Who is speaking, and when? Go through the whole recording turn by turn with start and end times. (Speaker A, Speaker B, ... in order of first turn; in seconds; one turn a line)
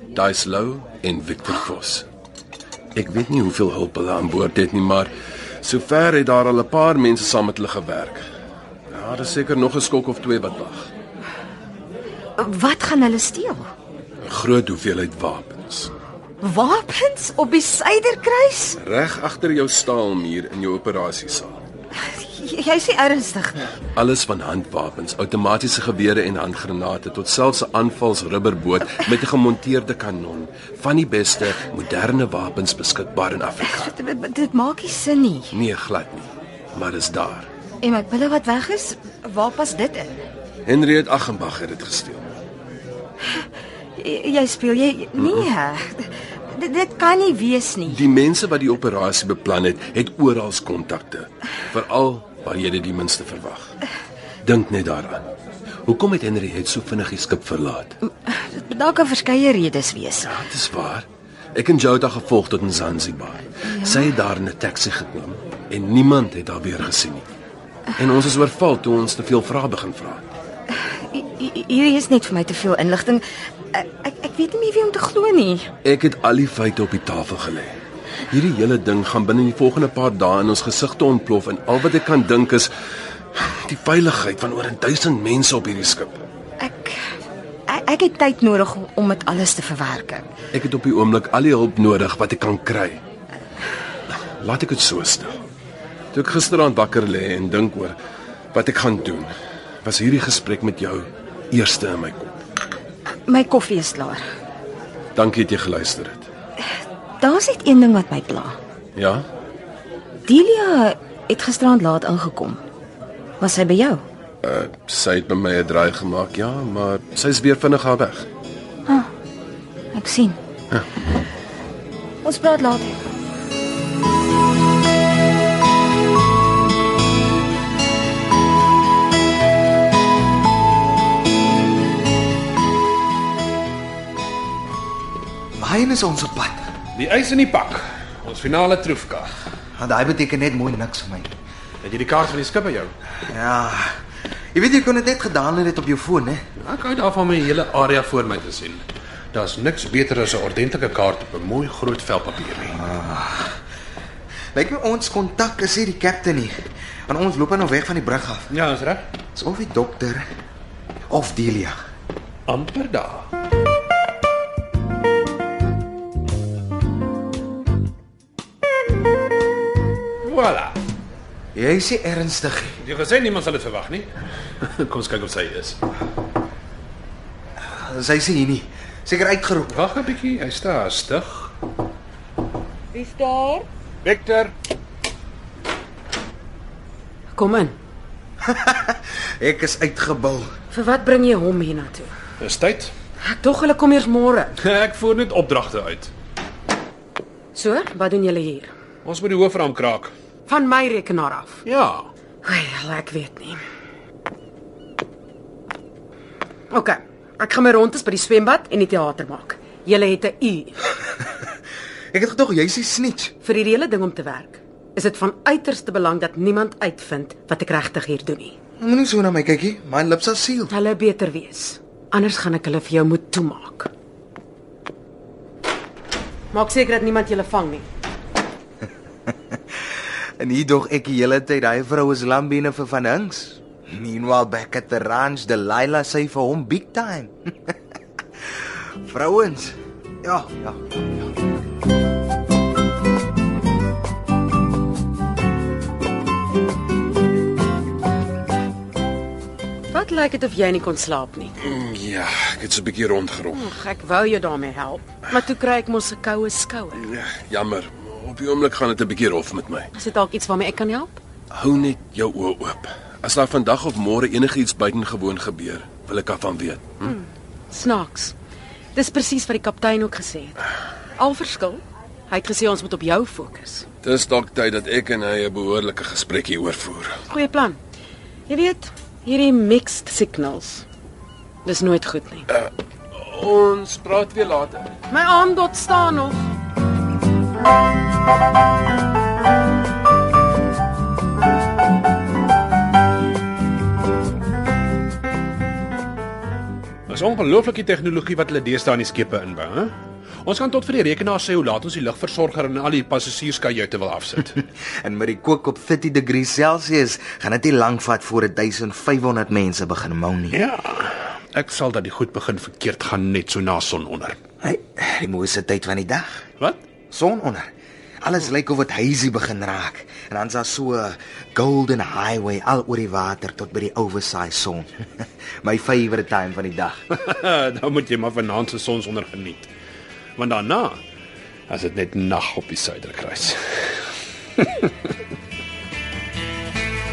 Speaker A: 0.1-2.0
Speaker A: 2.9-5.1
Speaker A: 5.6-8.2
Speaker A: 8.9-10.9
Speaker B: 12.4-13.7
Speaker A: 14.2-15.9
Speaker B: 16.4-18.8
Speaker A: 18.8-21.6
Speaker B: 22.0-23.7
Speaker A: 23.9-33.9
Speaker B: 33.6-35.6
Speaker A: 35.5-37.5
Speaker B: 37.8-40.1
Speaker A: 40.6-42.3
Speaker B: 44.0-48.0
Speaker A: 45.2-45.5
Speaker A: 47.9-53.7
Speaker A: 54.4-55.2
Speaker A: 55.9-57.9
Speaker B: 58.1-60.4
Speaker A: 60.2-67.2
Speaker B: 63.6-64.1
Speaker A: 68.0-70.2
Speaker B: 70.9-75.7
Speaker A: 75.8-77.7
Speaker A: 78.3-82.7
Speaker A: 83.3-86.2
Speaker B: 86.6-87.1
Speaker B: 87.7-90.3
Speaker A: 90.5-93.0
Speaker A: 94.1-95.4
Speaker A: 96.1-98.0
Speaker A: 98.5-99.3
Speaker A: 99.8-102.4
Speaker B: 103.3-104.2
Speaker A: 105.2-106.3
Speaker B: 107.2-108.6
Speaker A: 109.0-109.2
Speaker B: 110.3-112.6
Speaker B: 113.4-114.0
Speaker A: 114.4-118.3
Speaker B: 119.9-120.4
Speaker B: 122.2-123.0
Speaker C: 135.6-136.7
Speaker D: 136.9-139.3
Speaker C: 139.8-141.3
Speaker D: 141.8-142.9
Speaker C: 143.2-143.9
Speaker C: 144.5-146.4
Speaker D: 146.6-152.8
Speaker C: 152.8-153.6
Speaker C: 154.5-156.5
Speaker C: 157.1-158.5
Speaker D: 158.5-159.1
Speaker C: 159.3-160.2
Speaker C: 161.1-161.8
Speaker D: 162.5-163.3
Speaker D: 170.2-170.8
Speaker C: 171.5-172.8
Speaker D: 172.8-175.8
Speaker C: 177.6-179.8
Speaker D: 179.7-181.5
Speaker E: 182.9-183.7
Speaker D: 184.0-184.5
Speaker E: 187.3-187.8
Speaker C: 188.4-190.5
Speaker E: 190.7-192.1
Speaker D: 192.4-192.9
Speaker E: 193.2-194.5
Speaker D: 194.6-196.1
Speaker E: 197.5-198.7
Speaker D: 199.0-200.1
Speaker E: 200.5-201.6
Speaker D: 201.6-202.1
Speaker E: 202.4-203.6
Speaker E: 206.7-210.8
Speaker C: 212.1-213.3
Speaker E: 213.4-218.5
Speaker C: 218.8-220.7
Speaker E: 220.7-223.9
Speaker E: 226.5-227.8
Speaker C: 230.4-237.7
Speaker C: 238.5-240.9
Speaker E: 249.9-251.5
Speaker A: 251.6-253.7
Speaker E: 253.5-257.1
Speaker A: 256.9-259.9
Speaker E: 259.9-261.2
Speaker A: 261.5-267.1
Speaker E: 267.0-268.3
Speaker E: 268.9-270.6
Speaker E: 271.2-273.9
Speaker A: 274.0-277.2
Speaker E: 277.3-277.8
Speaker E: 278.5-280.8
Speaker E: 281.6-282.5
Speaker A: 282.5-284.9
Speaker E: 285.1-286.5
Speaker D: 297.1-304.6
Speaker C: 304.8-310.6
Speaker D: 310.5-314.4
Speaker C: 314.6-316.4
Speaker C: 317.1-317.7
Speaker C: 318.2-327.0
Speaker D: 327.1-329.7
Speaker D: 330.4-331.0
Speaker D: 331.7-333.9
Speaker D: 334.6-335.1